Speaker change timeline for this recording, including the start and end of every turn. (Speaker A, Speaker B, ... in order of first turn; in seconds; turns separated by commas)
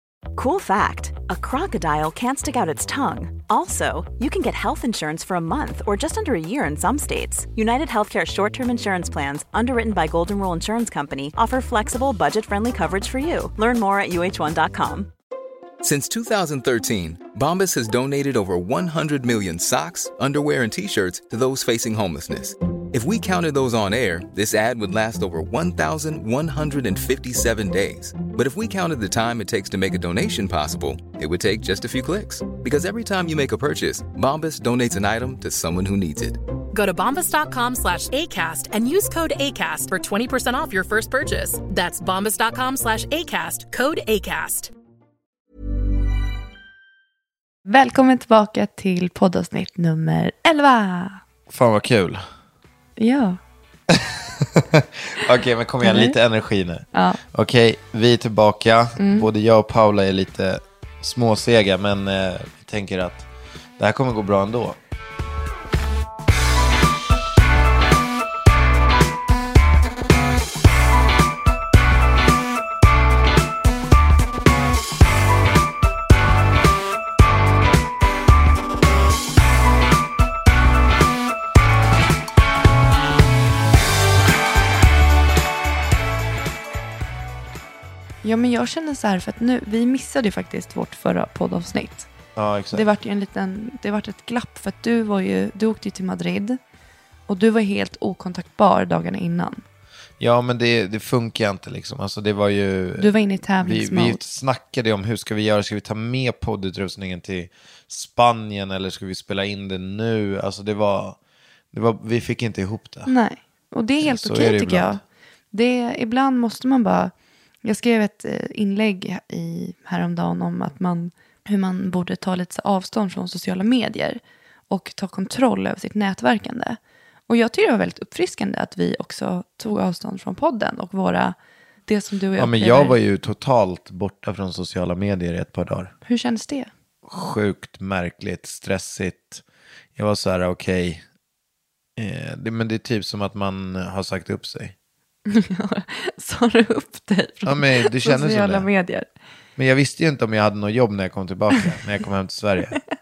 Speaker A: 0.3-15.1, Speaker B: 15.8-36.4, Speaker C: 36.7-44.7, Speaker D: 47.7-51.2, Speaker E: 51.5-52.2, Speaker D: 53.0-53.4, Speaker E: 53.9-64.8, Speaker D: 55.8-56.2, Speaker D: 56.9-57.2, Speaker D: 59.0-59.3, Speaker D: 88.2-92.1, Speaker E: 92.4-92.8, Speaker D: 92.7-96.6, Speaker D: 97.3-99.6, Speaker E: 100.2-111.2, Speaker D: 103.0-104.2, Speaker E: 111.7-113.1, Speaker D: 113.1-115.0, Speaker E: 114.0-115.0, Speaker D: 115.5-117.1, Speaker D: 117.6-124.2, Speaker D: 124.7-133.0, Speaker E: 132.4-135.9, Speaker D: 136.1-136.7, Speaker E: 137.1-139.4, Speaker E: 140.0-141.0, Speaker E: 142.0-144.8, Speaker D: 145.3-149.1, Speaker E: 147.4-148.7, Speaker E: 149.6-152.8